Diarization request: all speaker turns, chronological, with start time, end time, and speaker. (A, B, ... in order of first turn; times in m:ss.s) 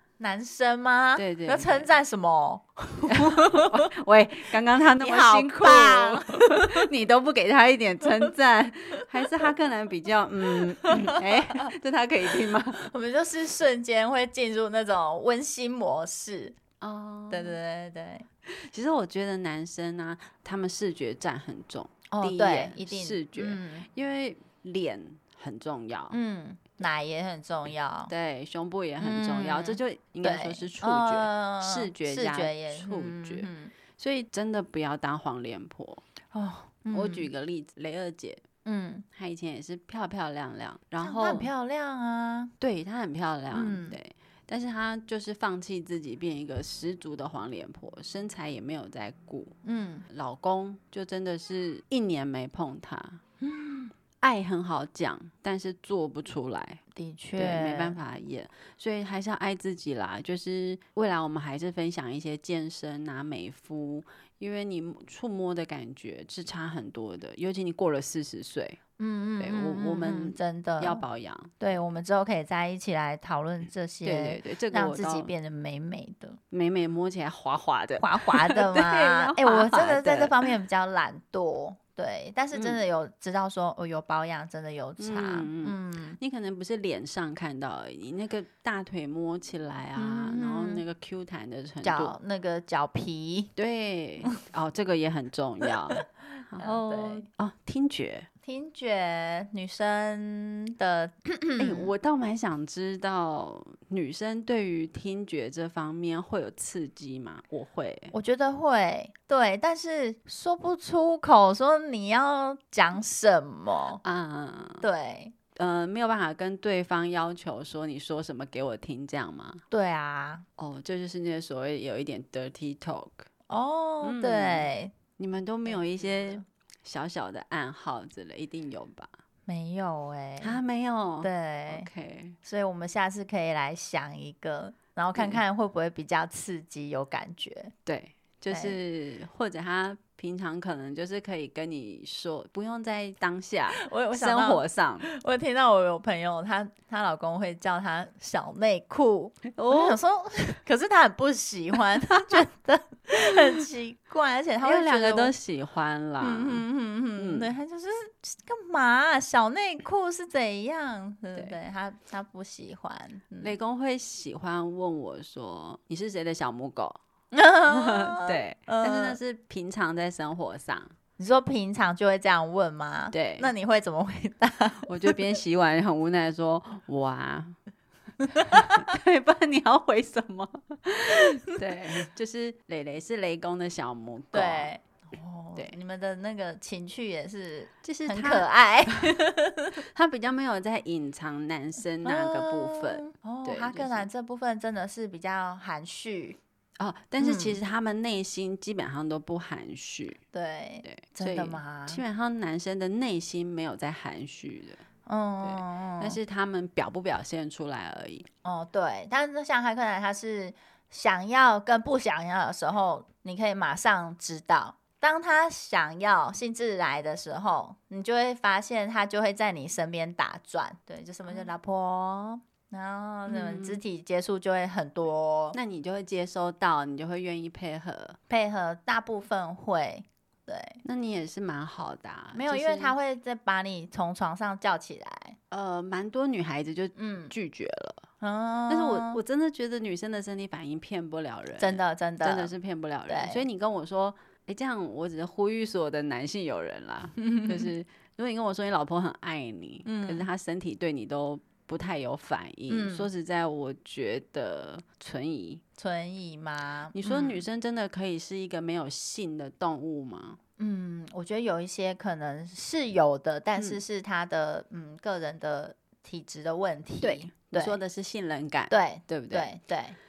0:00.2-0:03.9 A
0:01.2-0:01.9 B
0:03.1-0:12.9 B
0:05.0-0:06.8 A
0:10.8-0:11.7 A
0:12.7-0:16.6 A
0:16.8-0:17.6 B
0:17.3-0:18.2 A
0:18.5-0:26.2 B
0:22.1-0:23.9 A
0:26.1-0:28.1 A
0:28.1-0:36.0 B
0:29.0-0:33.7 A
0:36.3-0:37.3 A
0:36.9-0:38.4 B
0:38.6-0:39.0 A
0:39.1-0:41.5 B
0:41.0-0:42.5 A
0:42.6-0:49.5 B
0:43.5-0:44.0 A
0:49.6-0:50.0 A
0:50.1-0:53.2 B
0:53.4-0:53.9 A
0:54.2-0:56.8 B
0:56.9-0:58.0 A
0:57.4-1:08.8 B
1:09.0-1:11.0 A
1:09.4-1:11.5 B
1:11.6-1:16.4 A
1:14.0-1:15.3 B
1:16.5-1:20.5 B
1:18.0-1:26.2 A
1:22.5-1:22.8 B
1:25.0-1:32.2 B
1:30.0-1:30.8 A
1:31.8-1:33.5 A
1:33.6-1:38.3 B
1:36.6-1:37.2 A
1:38.4-1:41.9 A
1:41.6-1:48.1 B
1:48.1-1:54.0 A
1:54.0-1:54.8 B
1:54.8-1:55.3 A
1:55.5-1:59.6 B
1:59.7-2:00.4 A
2:00.6-2:03.2 B
2:03.5-2:04.9 A
2:04.0-2:09.1 B
2:05.7-2:06.4 A
2:09.5-2:10.6 A
2:10.4-2:12.4 B
2:11.2-2:11.9 A
2:12.4-2:17.7 A
2:17.8-2:25.0 B
2:18.5-2:18.8 A
2:23.8-2:35.3 A
2:29.5-2:30.0 B
2:34.6-2:36.6 B
2:36.2-2:43.5 A
2:37.2-2:37.5 B
2:43.4-2:47.0 B
2:47.3-2:49.2 A
2:47.7-2:50.9 B
2:51.2-2:55.2 A
2:53.1-2:53.5 B
2:54.9-2:57.6 B
2:58.3-2:58.8 A
2:58.5-3:04.7 B
3:04.3-3:09.8 A
3:07.8-3:09.1 B
3:09.8-3:14.1 B
3:12.0-3:16.4 A
3:16.8-3:20.2 B
3:17.2-3:17.6 A
3:20.3-3:22.0 A
3:20.8-3:24.8 B
3:25.0-3:26.2 A
3:25.4-3:28.3 B
3:28.4-3:45.6 A
3:43.3-3:43.8 B
3:45.5-3:48.2 B
3:48.3-3:50.8 A
3:50.8-3:52.9 B
3:52.3-3:55.4 A
3:55.5-3:58.0 B
3:57.0-3:57.3 A
3:58.2-3:59.2 A
3:58.7-4:15.6 B
4:01.6-4:02.5 A
4:03.1-4:03.4 A
4:07.2-4:07.7 A
4:09.8-4:10.3 A
4:12.7-4:13.1 A
4:15.8-4:17.4 A
4:16.9-4:20.4 B
4:20.6-4:27.8 A
4:27.0-4:29.5 B
4:28.7-4:30.0 A